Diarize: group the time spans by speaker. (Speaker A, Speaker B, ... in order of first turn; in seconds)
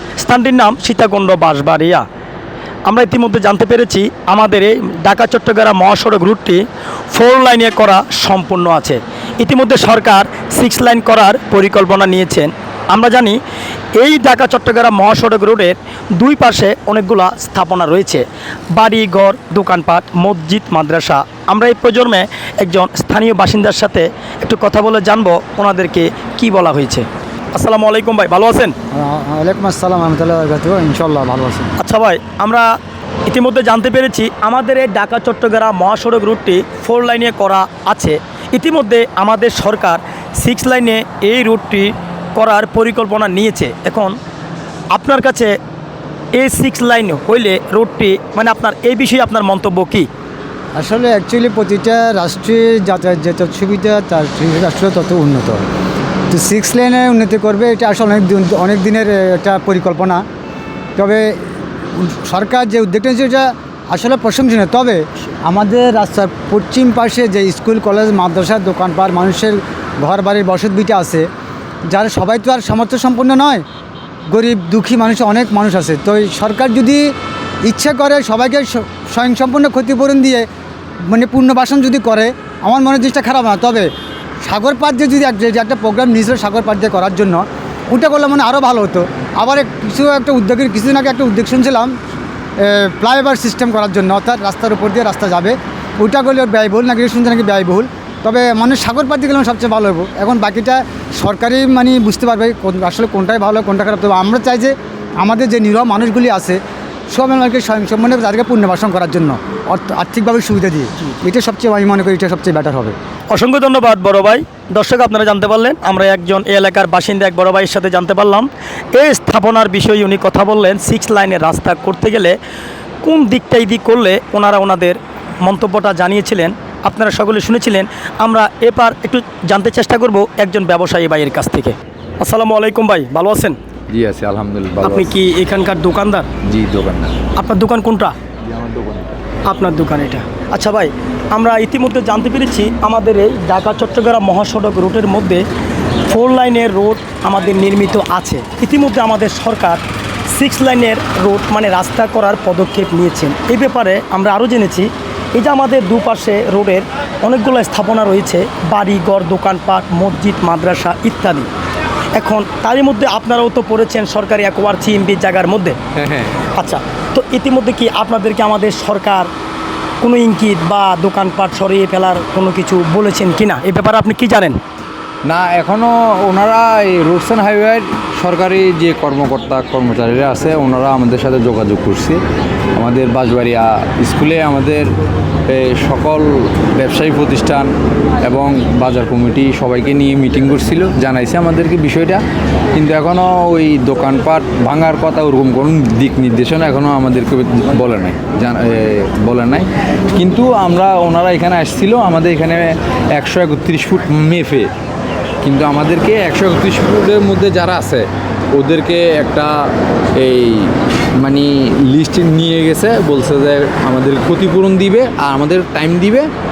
Speaker A: 0.2-2.0, 2.9-13.4, 14.0-28.7, 31.8-32.7, 33.3-44.1, 44.9-45.5, 46.4-50.1, 113.3-122.3, 123.0-133.6, 134.8-136.3, 137.3-138.2, 139.4-145.4, 146.1-161.5, 162.1-165.8, 166.6-169.3, 170.0-174.6
Speaker B: 28.9-31.7, 50.8-55.6, 56.3-60.2, 61.0-61.3, 62.0-71.3, 71.9-73.6, 74.3-77.1, 77.6-80.5, 81.1-83.9, 84.4-91.9, 92.6-106.6, 107.1-112.9
Speaker C: 133.9-135.1, 136.4-137.1, 138.5-139.2, 165.9-166.4, 175.2-182.2, 182.8-184.9, 185.5-187.7, 188.2-192.2, 192.7-204.7, 205.4-209.5, 210.2-216.3